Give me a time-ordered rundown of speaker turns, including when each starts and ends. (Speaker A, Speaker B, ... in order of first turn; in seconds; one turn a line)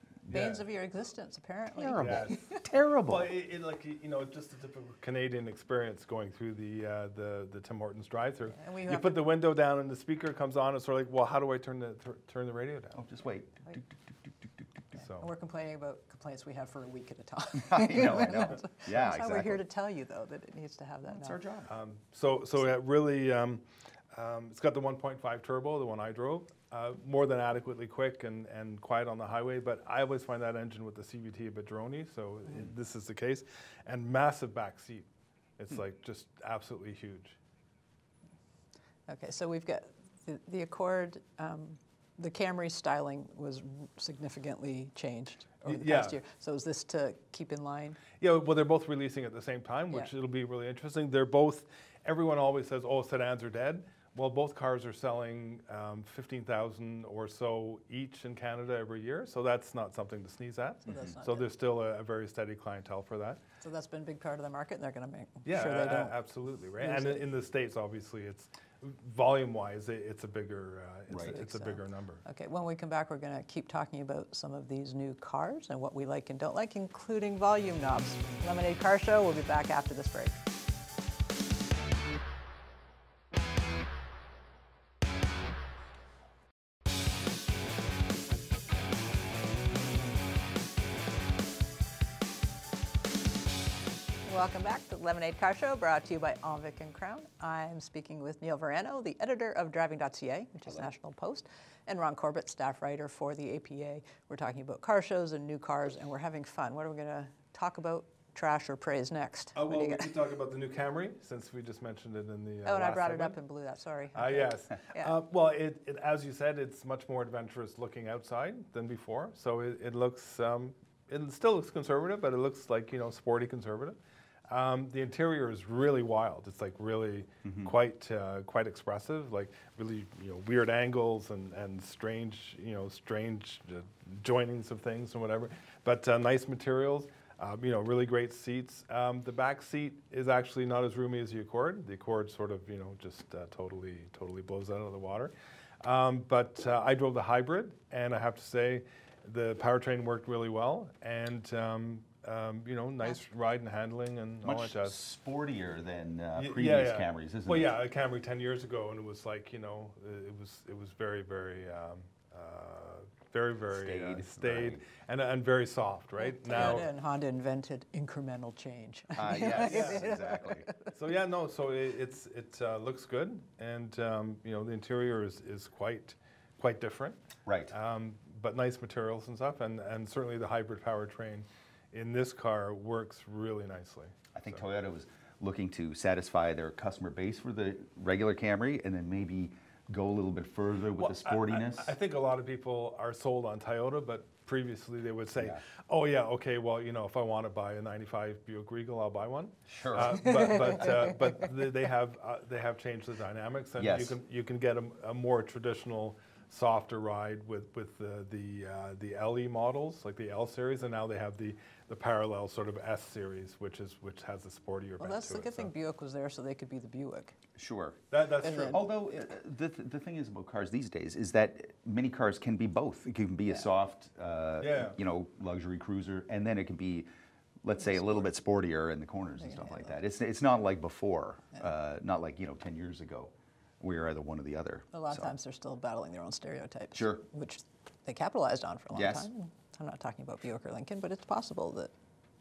Speaker A: 0.2-0.5
Speaker B: 0.3-2.6
Speaker C: 0.3-0.6
Speaker A: 1.7-3.3
Speaker C: 2.0-2.4
Speaker C: 3.0-13.0
Speaker B: 8.6-9.3
Speaker A: 12.9-14.9
Speaker C: 14.9-15.3
Speaker B: 15.2-21.4
Speaker A: 17.6-19.6
Speaker A: 21.1-21.7
Speaker C: 21.7-37.4
Speaker B: 39.1-48.0
Speaker C: 45.6-46.2
Speaker C: 48.2-63.4
Speaker B: 60.9-61.5
Speaker A: 60.9-61.1
Speaker B: 63.6-66.2
Speaker C: 65.4-72.2
Speaker B: 66.8-67.2
Speaker A: 71.1-71.4
Speaker B: 71.3-80.4
Speaker B: 94.2-110.1
Speaker C: 109.5-113.4
Speaker B: 112.7-115.2
Speaker C: 114.1-124.0
Speaker C: 124.5-155.0
Speaker A: 127.4-127.7
Speaker A: 154.4-157.7
Speaker C: 156.4-166.9
Speaker A: 163.7-164.8
Speaker B: 166.2-170.9
Speaker A: 166.5-166.8
Speaker A: 169.2-170.7
Speaker C: 169.6-170.1
Speaker C: 170.8-177.2
Speaker A: 177.5-177.7
Speaker C: 177.7-184.6
Speaker A: 184.3-191.9
Speaker C: 190.9-215.7
Speaker A: 195.4-195.6
Speaker A: 199.7-200.3
Speaker B: 200.2-201.1
Speaker A: 203.8-204.2
Speaker B: 215.0-217.3
Speaker A: 217.6-218.0
Speaker C: 218.1-218.9
Speaker B: 218.4-218.8
Speaker A: 218.7-227.1
Speaker C: 224.6-225.0
Speaker A: 227.6-235.3
Speaker B: 227.8-228.2
Speaker B: 229.4-230.0
Speaker B: 234.9-241.9
Speaker A: 236.9-237.2
Speaker A: 238.9-239.3